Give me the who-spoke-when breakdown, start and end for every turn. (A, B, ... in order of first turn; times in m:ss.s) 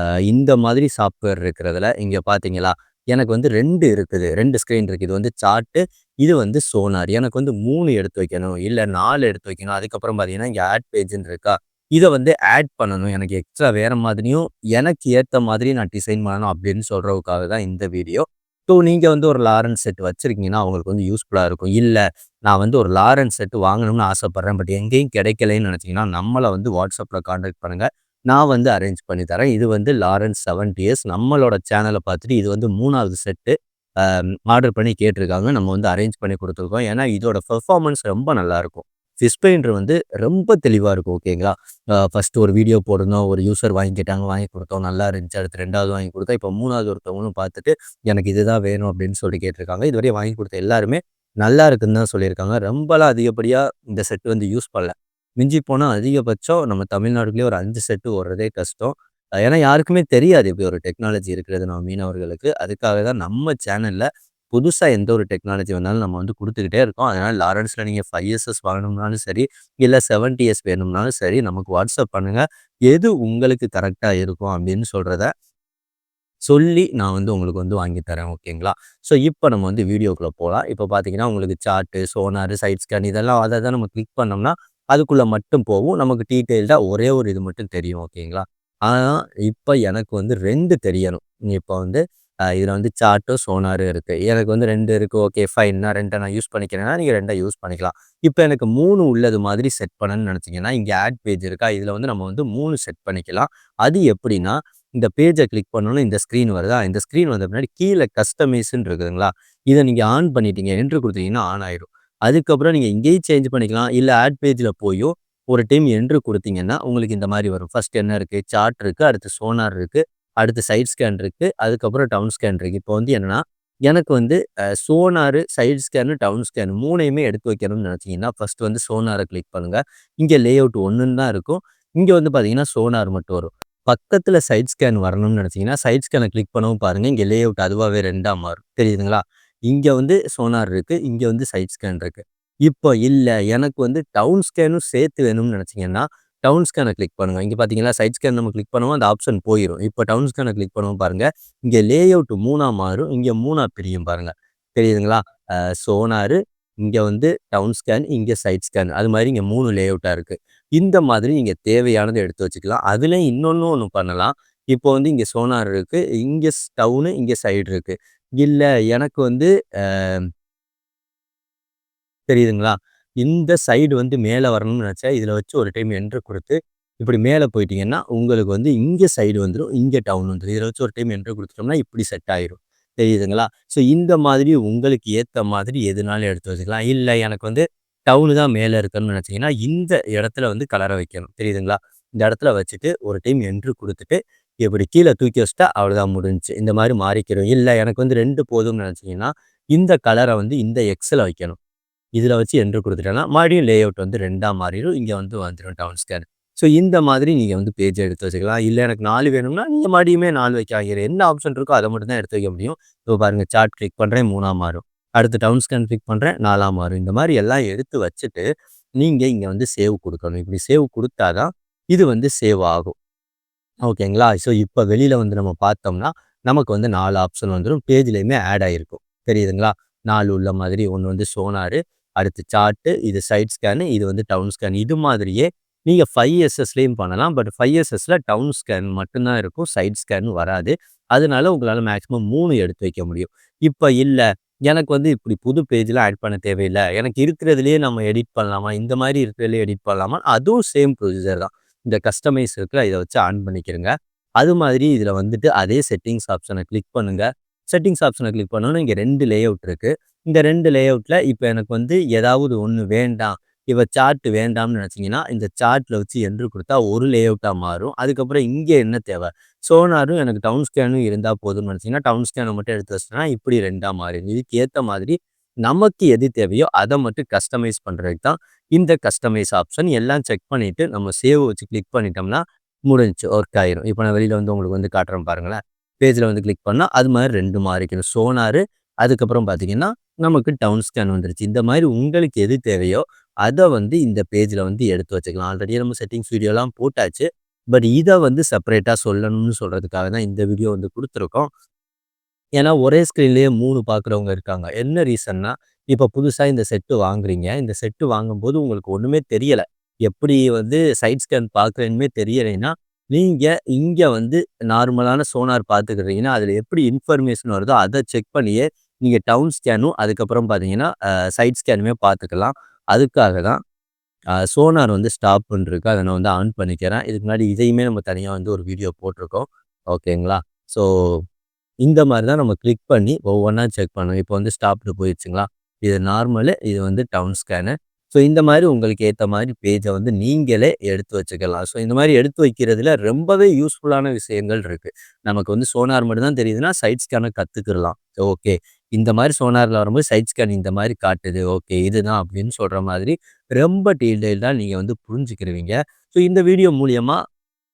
0:00.3-1:15.3 A
1:16.5-1:32.0 A
1:32.6-2:50.2 A
2:52.3-3:21.6 A
3:22.2-3:38.4 A
3:39.0-3:42.9 A
3:43.9-5:01.5 A
5:02.6-5:23.6 A
5:24.5-5:31.2 A
5:31.8-5:57.2 A